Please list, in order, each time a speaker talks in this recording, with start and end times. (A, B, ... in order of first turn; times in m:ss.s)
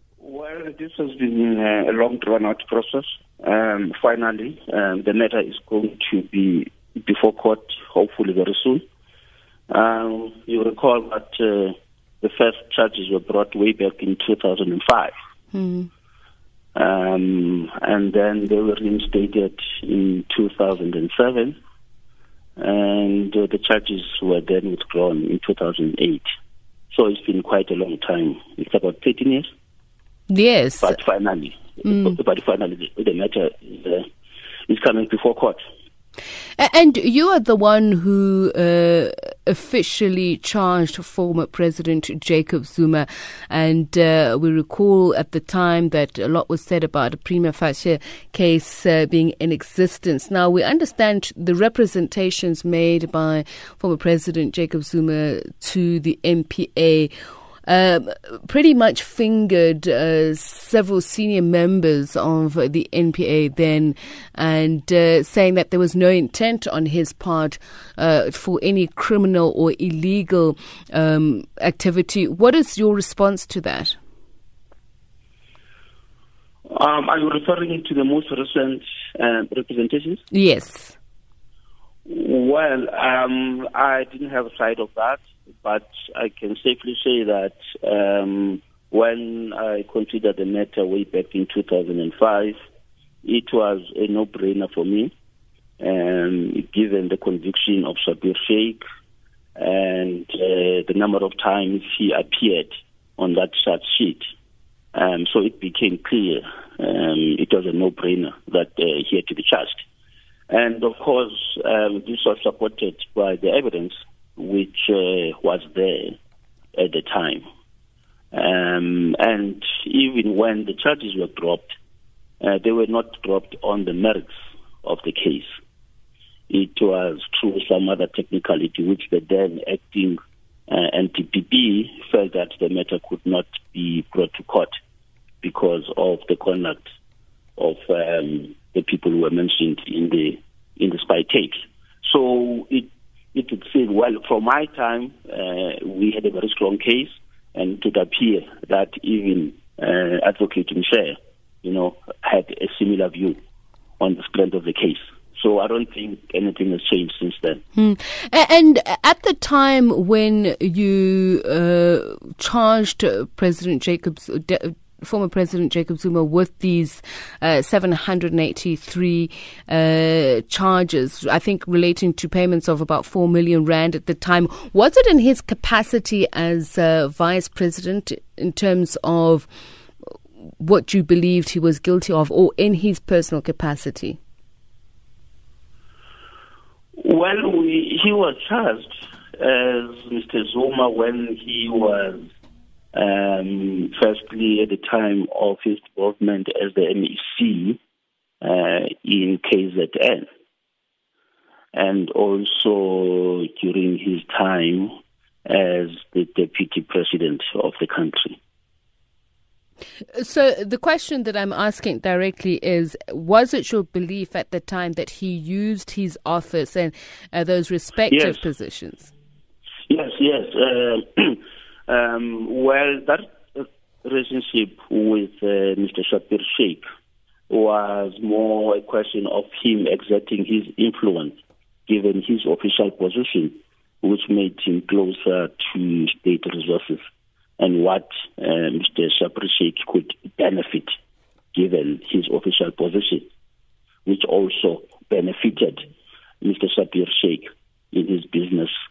0:00.2-0:08.8 A
0:09.7-0:15.1 A
0:15.5-0:15.9 B
0:16.7-0:21.6 A
0:22.6-0:26.2 A
0:26.9-0:29.5 A
0:30.3-0:31.0 B
0:30.8-0:34.0 A
0:31.9-0:32.2 B
0:34.7-0:35.6 A
0:36.6-0:57.1 B
0:57.7-1:14.0 B
1:16.7-1:20.2 A
1:20.3-1:21.0 B
1:22.0-1:32.6 A
1:33.2-1:35.1 A
1:35.8-1:38.8 A
1:39.6-1:44.3 A
1:44.9-1:49.8 A
1:50.5-1:56.2 A
1:56.7-1:57.4 A
1:58.3-2:01.7 A
2:02.4-2:05.5 A
2:06.5-2:14.7 A
2:15.4-2:16.8 A
2:17.6-2:33.4 A
2:34.0-2:37.6 A
2:37.8-2:59.5 B
3:00.6-3:04.2 B
3:07.0-3:12.2 A
3:12.9-3:17.8 A
3:18.4-3:20.3 A
3:21.7-3:24.9 A
3:25.4-3:28.4 A
3:30.1-3:39.1 B
3:38.1-3:38.4 A
3:39.9-3:46.8 A
3:47.5-3:57.0 A
3:57.6-4:01.0 A
4:01.5-4:03.3 A
4:04.0-4:05.8 A
4:06.4-4:08.7 A